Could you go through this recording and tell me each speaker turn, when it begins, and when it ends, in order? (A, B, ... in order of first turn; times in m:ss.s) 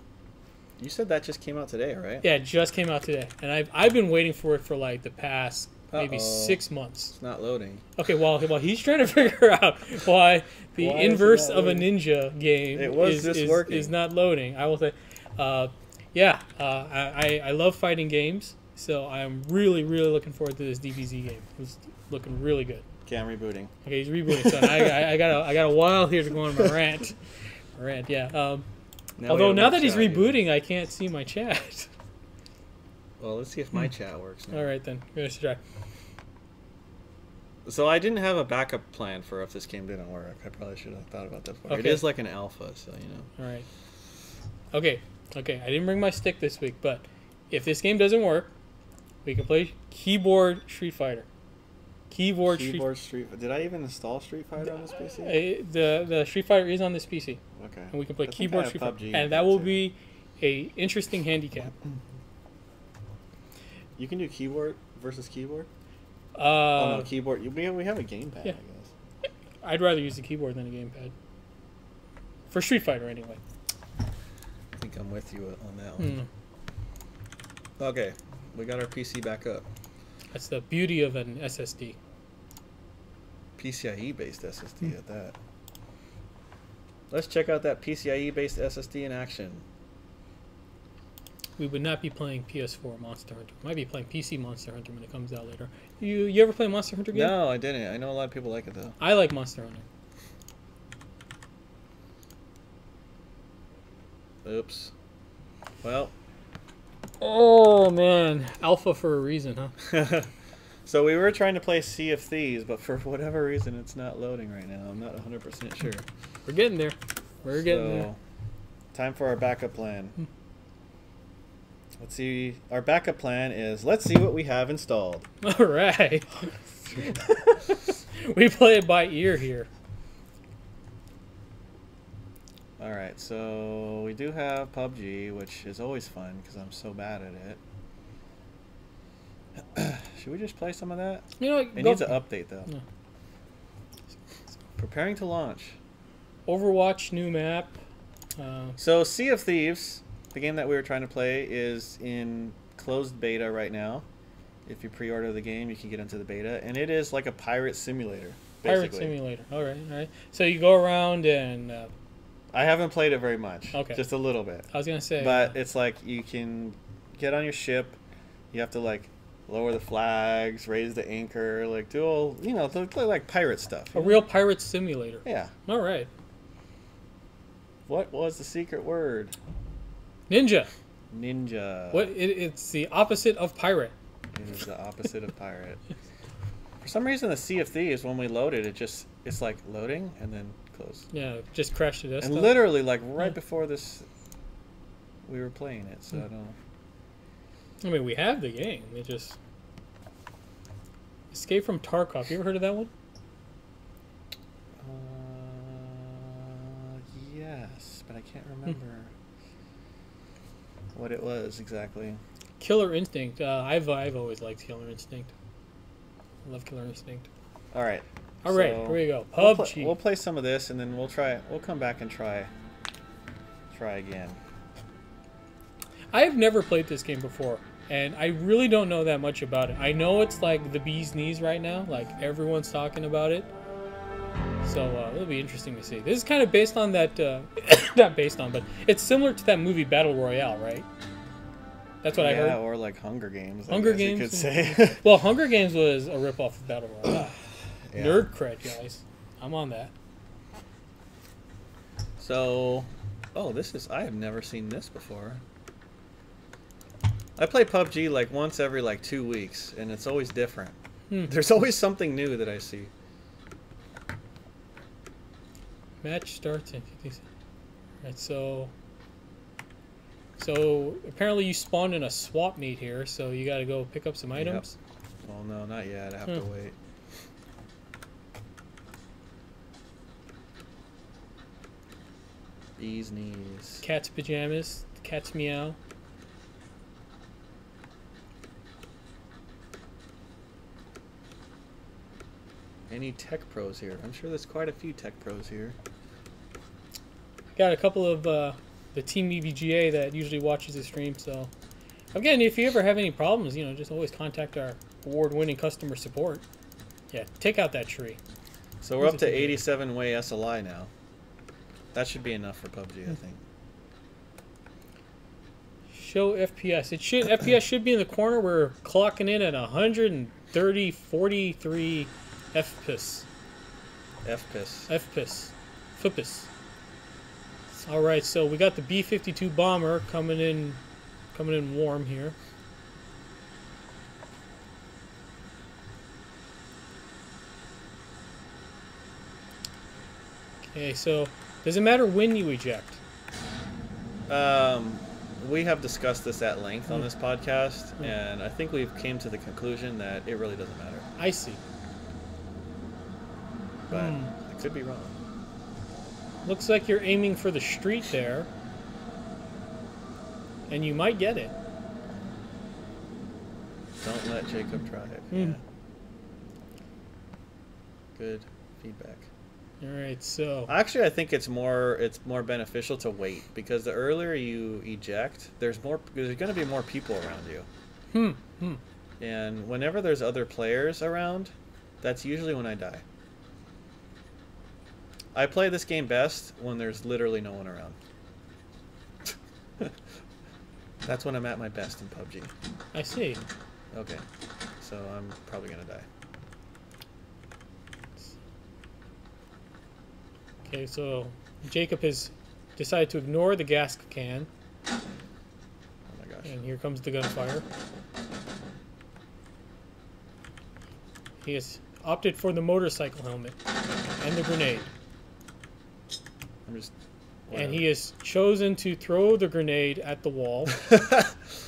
0:00.8-0:02.2 A
0:02.2-0:07.1 B
0:05.9-0:07.8 A
0:08.0-0:22.8 B
0:10.8-0:11.9 A
0:12.7-0:13.9 A
0:23.0-0:23.7 A
0:23.8-0:27.2 B
0:27.7-0:28.6 B
0:29.2-0:30.4 A
0:29.2-0:31.9 B
0:33.2-0:34.7 A
0:34.5-0:35.6 B
0:37.6-0:43.3 A
0:41.7-0:42.1 B
0:43.4-0:43.7 B
0:44.7-0:48.5 B
0:49.2-0:51.2 B
0:52.1-0:52.8 B
0:52.4-0:55.4 A
0:55.0-0:57.4 B
0:57.5-0:59.8 A
0:57.9-1:01.7 B
1:04.0-1:05.7 A
1:06.3-1:07.1 B
1:06.7-1:08.9 A
1:09.6-1:11.1 B
1:12.5-1:13.4 B
1:14.8-1:16.2 A
1:16.0-1:16.2 B
1:17.8-1:19.7 A
1:20.3-1:22.0 B
1:23.6-1:25.4 A
1:27.1-1:29.6 A
1:31.6-1:37.4 B
1:37.1-1:39.0 A
1:39.0-1:39.8 B
1:44.4-1:44.9 A
1:45.8-1:46.1 A
1:47.2-1:49.8 B
1:49.8-1:50.3 A
1:50.8-1:56.0 A
1:56.4-1:58.1 B
1:57.6-1:58.2 A
1:58.9-2:00.2 A
2:02.0-2:05.3 A
2:05.4-2:09.7 B
2:12.8-2:17.6 A
2:19.7-2:22.7 A
2:21.4-2:22.8 B
2:24.8-2:25.8 A
2:26.4-2:27.8 B
2:28.4-2:28.8 B
2:28.8-2:34.0 A
2:34.6-2:39.2 A
2:38.6-2:41.9 B
2:42.5-2:44.6 A
2:43.7-2:44.0 B
2:44.7-2:45.6 B
2:45.2-2:48.0 A
2:48.5-2:54.2 A
2:53.9-2:56.1 B
2:55.2-2:55.5 A
2:57.9-2:59.4 A
3:00.3-3:00.7 B
3:01.1-3:02.1 A
3:01.9-3:03.9 B
3:04.3-3:05.8 A
3:06.8-3:11.0 A
3:11.1-3:12.6 B
3:12.2-3:14.1 A
3:15.2-3:16.6 A
3:17.8-3:19.4 B
3:21.3-3:22.9 B
3:24.8-3:29.1 A
3:30.9-3:32.2 A
3:32.6-3:35.3 B
3:36.4-3:37.3 B
3:37.7-3:42.5 A
3:38.4-3:39.9 B
3:43.7-3:44.4 A
3:46.1-3:53.5 B
3:54.6-4:00.8 B
4:02.0-4:02.6 B
4:02.1-4:05.0 A
4:03.7-4:07.4 B
4:07.9-4:08.2 A
4:07.9-4:09.9 B
4:12.2-4:15.4 A
4:17.4-4:22.9 A
4:26.0-4:27.2 B
4:28.0-4:28.7 B
4:30.4-4:34.7 B
4:34.3-4:34.6 A
4:35.2-4:36.7 A
4:42.8-4:43.8 A
4:43.8-4:45.8 B
4:52.9-4:55.8 A
4:57.5-5:01.5 B
5:02.1-5:06.4 B
5:07.1-5:08.2 B
5:08.8-5:10.9 A
5:09.0-5:09.6 B
5:11.9-5:13.4 A
5:15.9-5:23.3 B
5:24.2-5:24.9 A
5:24.9-5:26.5 B
5:27.8-5:30.8 B
5:31.3-5:32.3 B
5:40.7-5:43.0 B
5:44.3-5:51.1 A
5:51.2-5:51.6 B
5:53.9-5:54.3 B
5:53.9-5:55.2 A
5:56.4-5:58.5 B
6:00.7-6:01.5 B
6:04.0-6:05.6 A
6:05.3-6:05.6 B
6:08.2-6:09.3 A
6:09.8-6:10.7 B
6:10.7-6:17.7 A
6:18.1-6:18.8 B
6:19.2-6:23.0 A
6:25.3-6:28.0 A
6:31.0-6:32.5 A
6:32.9-6:33.4 B
6:33.9-6:34.2 A
6:34.8-6:36.0 A
6:40.6-6:44.5 B
6:46.1-6:46.6 A
6:46.4-6:47.6 B
6:51.4-6:53.6 B
6:54.2-6:54.9 B
6:56.7-6:56.9 A
6:57.5-6:57.9 A
6:57.5-7:00.9 B